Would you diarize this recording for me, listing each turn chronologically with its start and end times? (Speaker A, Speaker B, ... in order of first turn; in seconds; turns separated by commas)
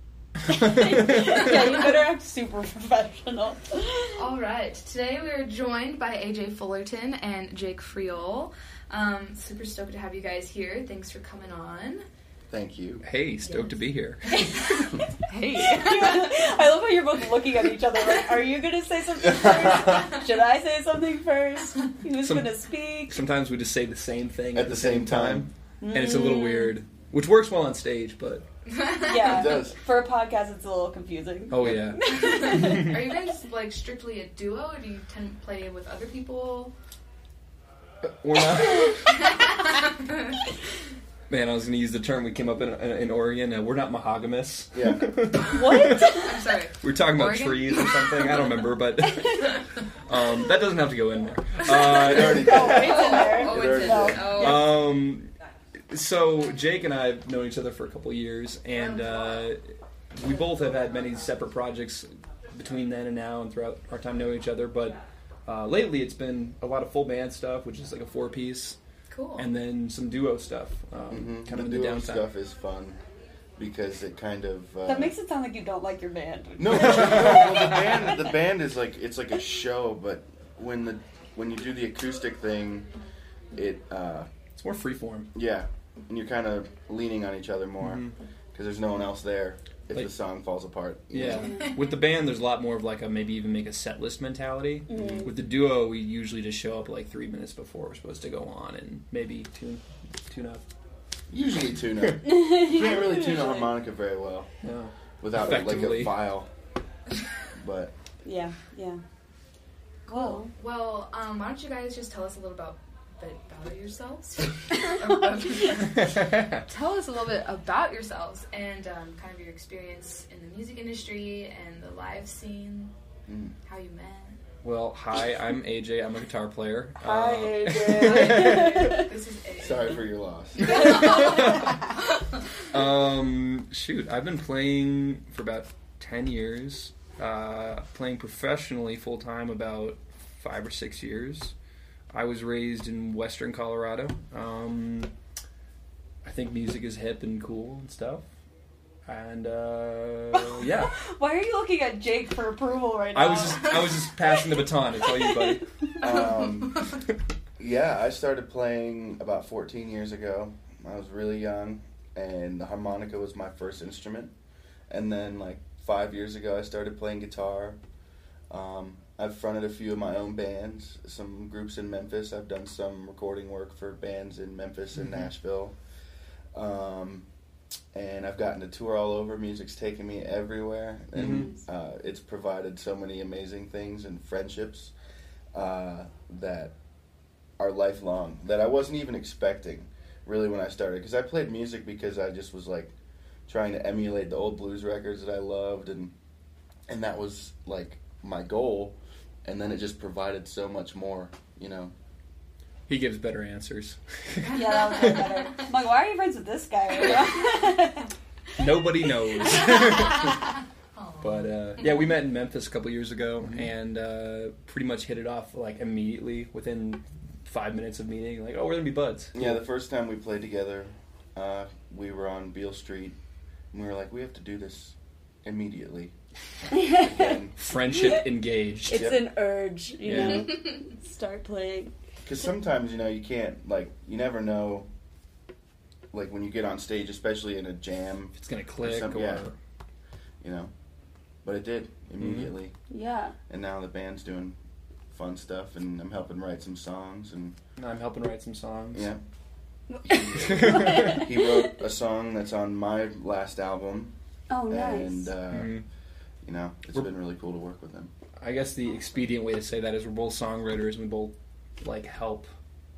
Speaker A: 0.5-4.2, Speaker B: 4.1-12.0, Speaker C: 12.5-13.0, Speaker D: 13.0-14.9, Speaker A: 14.3-15.0, Speaker B: 15.2-16.4, Speaker A: 15.6-23.1, Speaker C: 19.4-19.9, Speaker D: 22.2-22.5, Speaker D: 23.1-28.4, Speaker C: 24.5-25.5, Speaker A: 25.8-26.7, Speaker B: 28.7-29.5, Speaker A: 29.0-32.9, Speaker C: 29.2-29.8, Speaker D: 31.5-33.0, Speaker B: 32.0-36.7, Speaker D: 38.0-39.0, Speaker B: 39.1-40.4, Speaker D: 41.3-46.2, Speaker C: 44.7-45.3, Speaker B: 45.3-48.6, Speaker A: 45.5-46.5, Speaker D: 46.8-53.2, Speaker B: 49.4-49.8, Speaker B: 51.6-52.0, Speaker C: 51.8-54.5, Speaker A: 52.3-54.7, Speaker B: 52.6-54.7, Speaker D: 54.3-55.3, Speaker D: 55.9-68.8, Speaker B: 58.7-59.5, Speaker B: 69.1-69.5, Speaker D: 69.3-72.3, Speaker C: 71.1-73.0, Speaker C: 73.6-75.1, Speaker A: 74.8-77.9, Speaker C: 76.6-82.9, Speaker D: 77.2-77.6, Speaker C: 83.5-84.3, Speaker D: 84.6-85.3, Speaker C: 85.3-88.0, Speaker D: 87.8-88.1, Speaker C: 88.5-91.5, Speaker D: 91.1-100.7, Speaker A: 94.9-95.3, Speaker C: 94.9-95.3, Speaker C: 101.3-104.5, Speaker A: 102.2-103.7, Speaker D: 104.6-106.2, Speaker C: 105.2-106.5, Speaker C: 107.5-107.9, Speaker A: 108.2-109.0, Speaker A: 110.1-110.5, Speaker B: 110.1-122.9, Speaker D: 116.0-116.6, Speaker C: 123.3-123.5, Speaker B: 123.7-124.4, Speaker D: 124.6-129.1, Speaker A: 127.0-129.1, Speaker B: 127.9-130.0, Speaker C: 129.6-130.9, Speaker B: 130.6-132.2, Speaker A: 130.6-131.9, Speaker D: 130.7-131.8, Speaker D: 132.7-141.5, Speaker D: 142.1-145.1, Speaker D: 146.2-148.2, Speaker D: 149.1-150.9, Speaker A: 150.3-154.3, Speaker D: 153.1-155.7, Speaker A: 155.2-155.6, Speaker C: 156.0-156.8, Speaker C: 157.6-164.3, Speaker C: 164.9-167.8, Speaker C: 168.5-175.7, Speaker D: 174.9-175.2, Speaker C: 176.5-177.2, Speaker C: 177.9-184.9, Speaker D: 181.1-181.5, Speaker C: 185.5-186.7, Speaker C: 187.6-192.9, Speaker C: 193.5-196.1, Speaker C: 196.9-201.9, Speaker D: 202.9-205.3, Speaker B: 204.4-205.5, Speaker A: 204.4-208.1, Speaker D: 207.0-207.5, Speaker D: 208.6-210.5, Speaker B: 209.5-211.8, Speaker D: 211.2-219.5, Speaker C: 219.3-223.2, Speaker C: 223.7-226.1, Speaker A: 226.7-227.4, Speaker C: 226.9-227.5, Speaker D: 227.6-229.2, Speaker A: 227.9-228.2, Speaker A: 228.9-231.9, Speaker C: 228.9-229.2, Speaker D: 230.0-230.6, Speaker C: 230.1-230.5, Speaker C: 232.2-234.9, Speaker C: 236.1-239.4, Speaker D: 238.3-239.5, Speaker C: 240.4-240.7, Speaker C: 241.4-242.7, Speaker D: 242.2-242.5, Speaker A: 242.9-243.3, Speaker C: 243.5-244.6, Speaker C: 245.1-247.6, Speaker D: 247.8-249.1, Speaker C: 248.9-249.2, Speaker A: 249.9-251.3, Speaker C: 250.0-254.1, Speaker D: 250.4-251.2, Speaker A: 254.5-255.3, Speaker C: 254.7-255.7, Speaker D: 255.5-255.8, Speaker C: 256.4-258.1, Speaker D: 258.4-262.5